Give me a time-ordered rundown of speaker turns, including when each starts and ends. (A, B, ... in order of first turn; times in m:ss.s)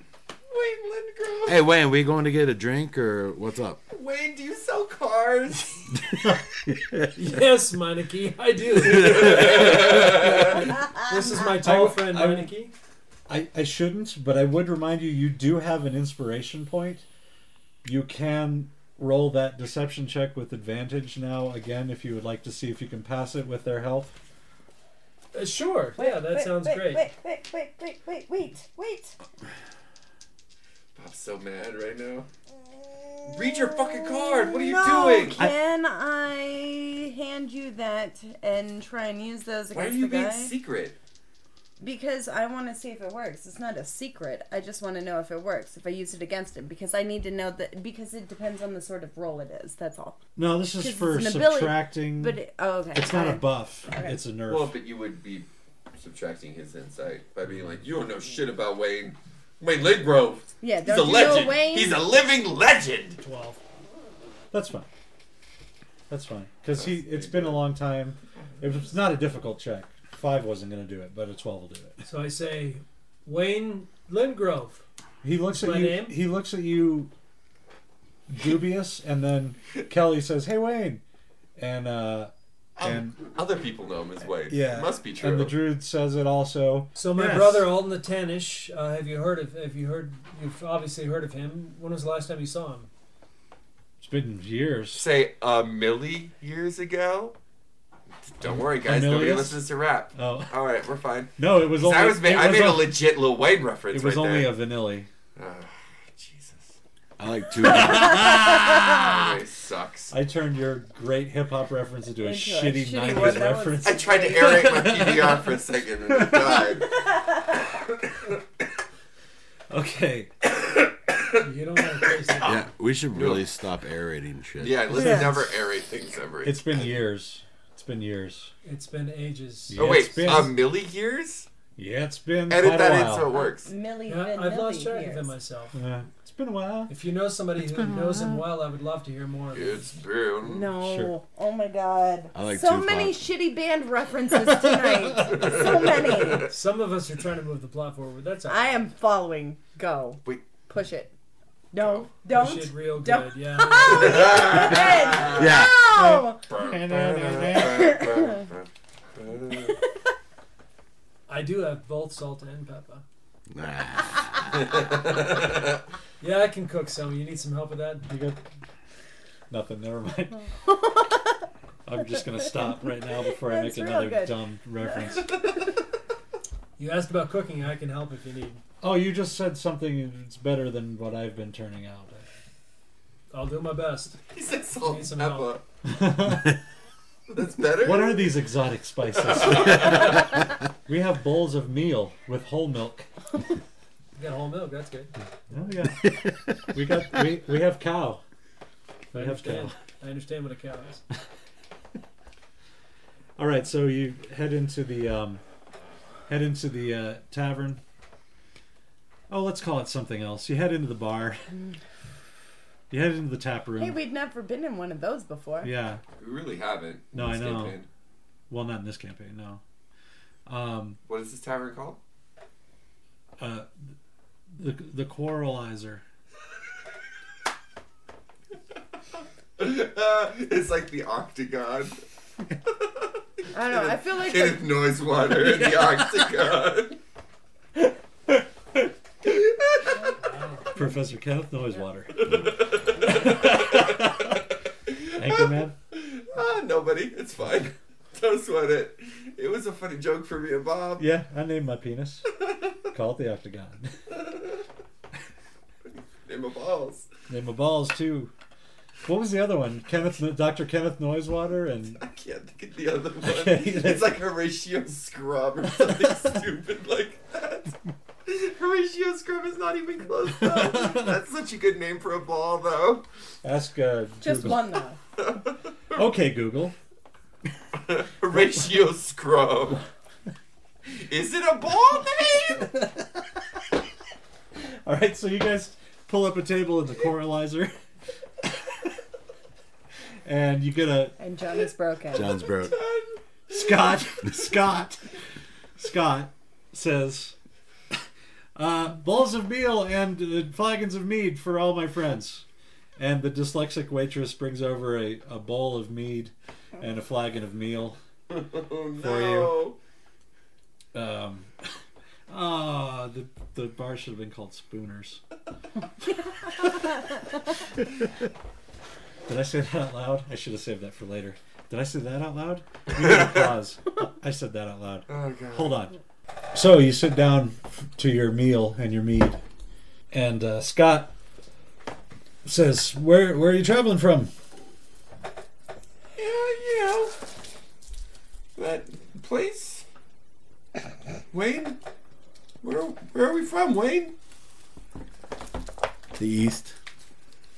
0:00.5-0:01.7 A
0:01.5-0:03.8 B
0:03.9-0:05.9 A
0:06.7-0:07.1 B
0:07.2-0:12.7 C
0:08.8-0:09.8 B
0:08.9-0:10.6 A
0:11.3-0:12.5 D
0:13.3-0:17.0 D
0:17.8-0:24.2 D
0:25.3-0:27.1 C
0:26.0-0:29.2 E
0:31.0-0:32.3 A
0:33.0-0:40.6 E
0:33.3-0:35.5 A
0:39.7-0:41.0 A
0:41.8-0:50.2 E
0:50.4-0:52.4 D
0:50.8-0:54.2 E
0:53.0-0:54.8 D
0:54.5-1:03.2 A
1:00.6-1:02.0 E
1:03.2-1:03.6 C
1:04.5-1:04.9 D
1:06.1-1:12.0 D
1:06.8-1:07.7 A
1:12.0-1:14.8 C
1:15.2-1:17.1 D
1:15.5-1:16.2 C
1:18.3-1:21.0 D
1:21.6-1:23.2 D
1:22.8-1:25.6 A
1:24.5-1:27.7 D
1:27.0-1:32.9 C
1:34.0-1:35.0 D
1:34.9-1:37.4 A
1:38.3-1:44.6 A
1:38.4-1:39.6 D
1:40.2-1:40.6 D
1:41.4-1:43.0 D
1:43.9-1:45.1 D
1:45.4-1:46.8 A
1:47.2-1:48.4 B
1:47.6-1:48.8 D
1:48.1-1:50.1 A
1:50.1-1:55.5 D
1:52.2-1:54.7 E
1:53.8-1:57.0 A
1:56.1-1:56.8 D
1:59.7-2:00.3 D
2:01.4-2:02.6 C
2:02.4-2:05.2 B
2:03.1-2:03.4 A
2:04.6-2:06.9 A
2:04.9-2:05.5 D
2:05.0-2:05.3 E
2:06.4-2:08.5 D
2:08.6-2:09.9 C
2:09.7-2:10.6 D
2:09.8-2:11.5 A
2:11.8-2:13.3 D
2:12.5-2:13.7 A
2:13.3-2:15.3 E
2:14.1-2:15.8 C
2:15.7-2:16.9 D
2:16.9-2:19.9 C
2:19.5-2:20.7 A
2:20.4-2:26.5 E
2:20.8-2:21.2 D
2:22.3-2:23.2 B
2:24.7-2:25.3 D
2:25.3-2:26.5 A
2:26.5-2:28.8 C
2:28.5-2:31.1 E
2:31.7-2:36.4 E
2:31.8-2:32.1 A
2:32.3-2:34.6 C
2:33.9-2:35.5 A
2:35.3-2:35.7 B
2:36.0-2:38.0 D
2:36.5-2:39.8 A
2:37.6-2:38.4 E
2:41.3-2:43.0 C
2:43.5-2:44.5 B
2:44.6-2:45.8 A
2:46.2-2:48.1 C
2:48.1-2:48.4 D
2:49.5-2:50.5 D
2:50.7-2:51.3 E
2:51.9-2:55.4 D
2:53.4-2:54.4 E
2:56.8-2:58.6 C
2:58.8-3:02.3 D
3:03.3-3:04.2 C
3:04.3-3:05.6 A
3:04.8-3:05.6 C
3:05.9-3:06.6 D
3:07.3-3:08.4 A
3:07.8-3:13.1 D
3:09.2-3:10.3 A
3:14.2-3:15.1 C
3:15.5-3:18.2 D
3:19.1-3:21.0 C
3:19.1-3:19.8 D
3:23.4-3:25.4 D
3:26.3-3:27.8 D
3:29.3-3:31.4 D
3:32.9-3:34.0 D
3:33.8-3:35.7 E
3:35.6-3:36.0 D
3:36.2-3:37.9 A
3:37.1-3:37.8 D
3:38.5-3:39.6 D
3:40.5-3:41.0 D
3:41.1-3:42.0 A
3:43.4-3:43.7 D
3:44.5-3:46.0 D
3:49.6-3:52.0 A
3:53.5-3:54.7 E
3:53.7-3:57.0 A
3:58.3-3:59.4 D
4:00.2-4:00.7 C
4:00.7-4:02.5 D
4:02.2-4:04.2 A
4:03.0-4:04.4 D
4:04.9-4:11.1 A
4:05.1-4:05.8 D
4:11.0-4:12.3 D
4:12.9-4:14.0 D
4:16.2-4:17.1 A
4:17.3-4:18.3 D
4:19.0-4:22.0 D
4:22.0-4:27.7 A
4:23.2-4:24.2 D
4:28.3-4:33.0 A
4:33.4-4:34.6 D
4:34.2-4:35.0 E
4:35.2-4:35.5 A
4:35.9-4:36.8 D
4:37.9-4:39.8 A
4:40.9-4:42.7 A
4:42.6-4:42.9 D
4:44.6-4:47.7 D
4:48.4-4:48.8 D
4:50.2-4:51.2 D
4:51.2-4:52.4 E
4:52.1-4:52.8 B
4:52.2-4:54.0 A
4:53.5-4:55.0 D
4:55.8-4:57.4 D
4:58.6-5:02.4 D
5:03.0-5:08.0 D
5:08.3-5:09.8 A
5:09.0-5:09.6 D
5:10.9-5:11.5 D
5:12.3-5:15.2 D
5:16.6-5:16.9 D
5:19.3-5:26.0 D
5:25.1-5:25.8 A
5:26.5-5:29.4 D
5:30.1-5:31.1 D
5:32.4-5:34.3 D
5:36.2-5:37.2 A
5:38.6-5:39.8 A
5:41.3-5:41.8 A
5:42.6-5:44.2 A
5:46.2-5:46.7 B